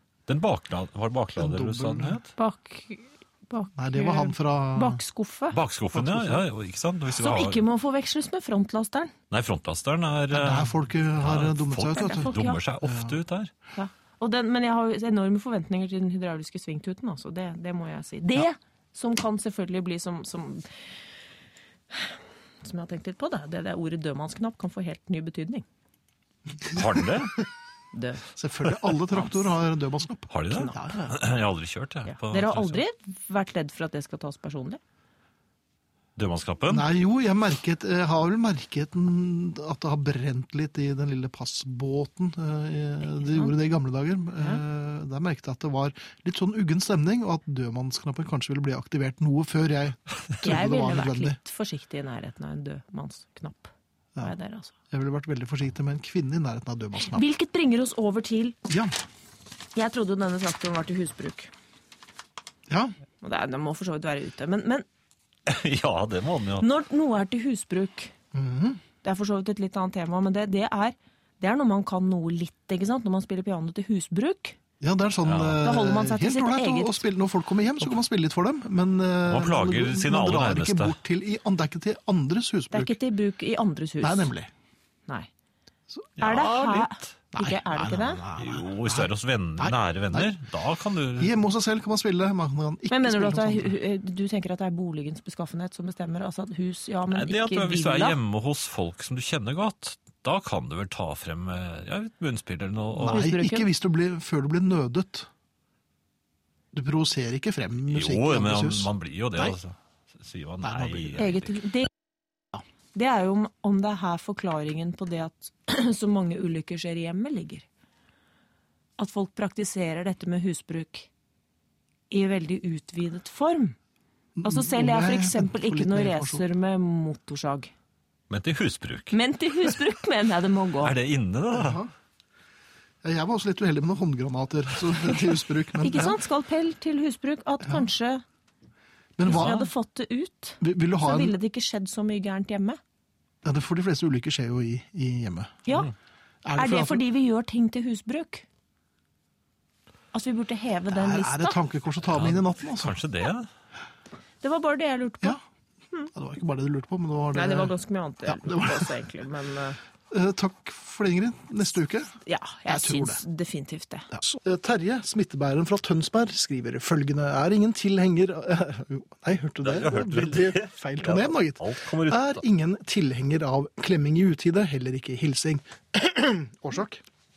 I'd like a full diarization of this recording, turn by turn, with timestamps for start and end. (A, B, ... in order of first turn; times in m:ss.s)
0:00.3-0:02.3 A
0:01.4-0:02.2 B
0:02.4-0:05.6 C
0:03.8-0:05.0 B
0:05.5-0:07.6 A
0:05.9-0:06.4 B
0:07.2-0:09.1 C
0:09.3-0:13.5 A
0:10.3-0:13.2 B
0:11.9-0:12.6 C
0:13.8-0:20.7 C
0:21.9-0:25.6 C
0:26.7-0:27.4 A
0:27.9-0:28.2 C
0:28.3-0:31.2 B
0:30.3-0:32.8 A
0:32.0-0:34.8 C
0:36.2-0:36.9 A
0:36.7-0:51.4 B
0:43.2-0:43.5 C
0:50.4-0:54.7 C
0:54.9-0:57.2 B
0:57.0-0:58.6 C
0:58.7-0:58.9 B
0:59.7-1:01.5 C
1:02.7-1:02.9 B
1:03.2-1:04.8 C
1:05.4-1:06.6 A
1:06.6-1:08.1 C
1:08.3-1:08.8 B
1:09.0-1:14.6 C
1:14.8-1:23.0 B
1:15.2-1:15.6 A
1:15.6-1:17.0 C
1:19.3-1:20.9 A
1:22.7-1:24.3 C
1:24.0-1:24.5 B
1:26.2-1:27.1 A
1:26.2-1:28.2 C
1:27.3-1:30.3 B
1:28.4-1:31.3 A
1:31.2-1:33.7 B
1:32.9-1:38.2 C
1:37.1-1:43.2 A
1:43.0-1:45.3 B
1:43.1-1:43.7 C
1:46.7-1:49.5 B
1:47.9-1:51.6 A
1:50.6-1:51.2 B
1:51.2-1:51.9 C
1:52.9-1:57.6 C
1:59.0-2:01.1 C
2:02.1-2:03.8 C
2:04.4-2:06.4 B
2:04.4-2:07.7 C
2:08.3-2:09.1 A
2:09.1-2:10.9 C
2:10.8-2:11.8 A
2:11.5-2:11.9 B
2:13.0-2:16.2 B
2:15.8-2:18.2 C
2:19.2-2:19.7 B
2:19.2-2:22.8 C
2:20.6-2:21.4 B
2:23.4-2:25.6 B
2:25.6-2:25.9 C
2:26.4-2:27.0 B
2:26.6-2:28.4 C
2:30.1-2:31.6 C
2:30.9-2:33.0 B
2:32.1-2:33.5 A
2:34.4-2:35.4 C
2:36.1-2:37.7 B
2:37.3-2:39.8 C
2:38.2-2:38.9 B
2:40.1-2:42.1 B
2:42.2-2:44.1 C
2:42.7-2:43.2 B
2:44.1-2:57.0 B
2:49.6-2:52.4 A